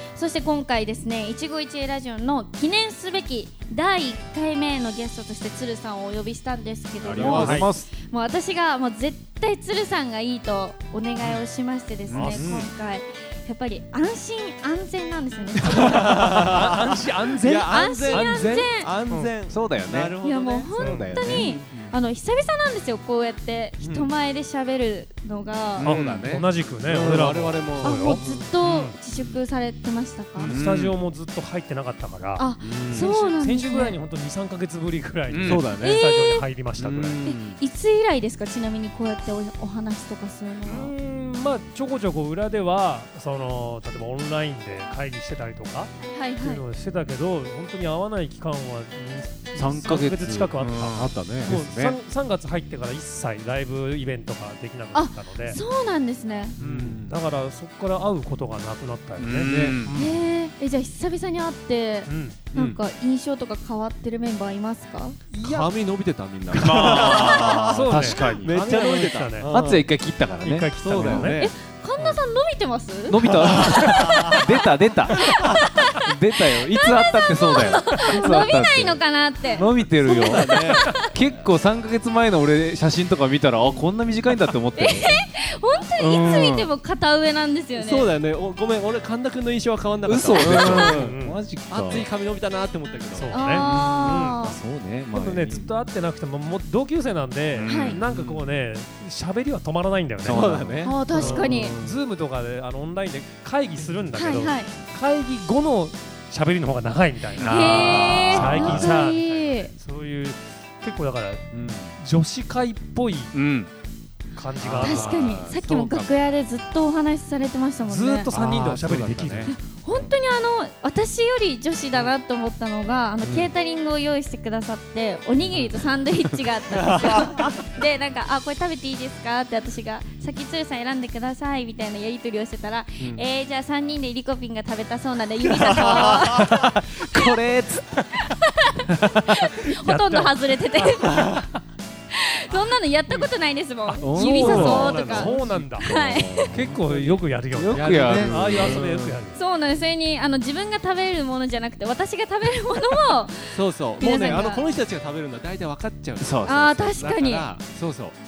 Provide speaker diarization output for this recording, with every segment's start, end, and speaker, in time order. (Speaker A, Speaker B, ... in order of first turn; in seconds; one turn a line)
Speaker A: 0.1-16.5
Speaker B: 7.0-7.9
Speaker C: 7.1-7.6
Speaker D: 7.2-7.7
Speaker B: 12.1-12.7
Speaker D: 12.1-12.6
Speaker C: 15.9-16.6
Speaker D: 16.0-19.3
Speaker C: 17.4-20.7
Speaker A: 17.7-18.9
Speaker B: 19.5-20.2
Speaker A: 20.2-25.9
Speaker D: 20.8-21.5
Speaker B: 20.8-21.9
Speaker D: 23.8-24.1
Speaker B: 25.8-26.5
Speaker D: 25.8-29.4
Speaker C: 26.8-28.4
Speaker A: 27.8-30.6
Speaker D: 30.4-37.2
Speaker B: 30.4-30.9
Speaker A: 32.4-34.0
Speaker C: 32.6-33.1
Speaker B: 35.3-35.6
Speaker C: 35.4-36.0
Speaker A: 35.8-36.4
Speaker B: 36.8-37.6
Speaker A: 37.2-40.9
Speaker D: 40.6-55.6
Speaker A: 46.1-46.6
Speaker B: 49.5-52.0
Speaker A: 54.9-56.6
Speaker C: 56.6-57.2
Speaker D: 56.6-60.2
Speaker B: 59.2-59.9
Speaker C: 59.4-59.8
Speaker A: 59.9-65.2
Speaker D: 62.1-62.4
Speaker D: 65.3-65.7
Speaker C: 65.4-69.8
Speaker D: 66.5-69.5
Speaker B: 66.6-68.5
Speaker B: 69.5-71.3
Speaker D: 70.4-71.4
Speaker C: 70.8-71.5
Speaker A: 71.4-74.4
Speaker B: 73.1-85.2
Speaker A: 75.2-81.1
Speaker C: 80.0-81.0
Speaker C: 83.6-83.9
Speaker A: 84.8-88.1
Speaker B: 86.0-86.7
Speaker C: 87.7-93.4
Speaker B: 90.0-92.1
Speaker A: 90.6-90.9
Speaker D: 90.7-91.4
Speaker D: 93.1-94.4
Speaker A: 93.3-94.6
Speaker B: 93.6-95.7
Speaker D: 95.1-100.4
Speaker B: 97.5-98.2
Speaker A: 97.7-98.0
Speaker C: 98.1-98.5
Speaker B: 100.2-102.0
Speaker C: 100.2-101.0
Speaker A: 100.8-101.8
Speaker D: 101.1-111.5
Speaker A: 104.2-104.7
Speaker B: 107.3-109.0
Speaker A: 107.4-109.7
Speaker B: 111.5-111.9
Speaker D: 112.0-113.3
Speaker B: 113.3-113.7
Speaker D: 114.3-115.5
Speaker C: 114.6-116.1
Speaker B: 114.8-115.3
Speaker A: 114.8-118.4
Speaker D: 117.8-120.1
Speaker C: 118.3-119.5
Speaker A: 119.5-137.4
Speaker D: 125.5-125.9
Speaker B: 136.4-138.1
Speaker A: 138.2-141.5
Speaker D: 139.6-141.6
Speaker A: 142.1-146.6
Speaker D: 142.5-143.3
Speaker D: 143.8-145.8
Speaker B: 144.0-145.0
Speaker C: 144.4-145.7
Speaker B: 145.8-149.2
Speaker D: 146.5-149.4
Speaker C: 147.7-148.9
Speaker A: 149.3-154.7
Speaker C: 153.5-158.2
Speaker B: 156.2-157.0
Speaker A: 156.4-157.5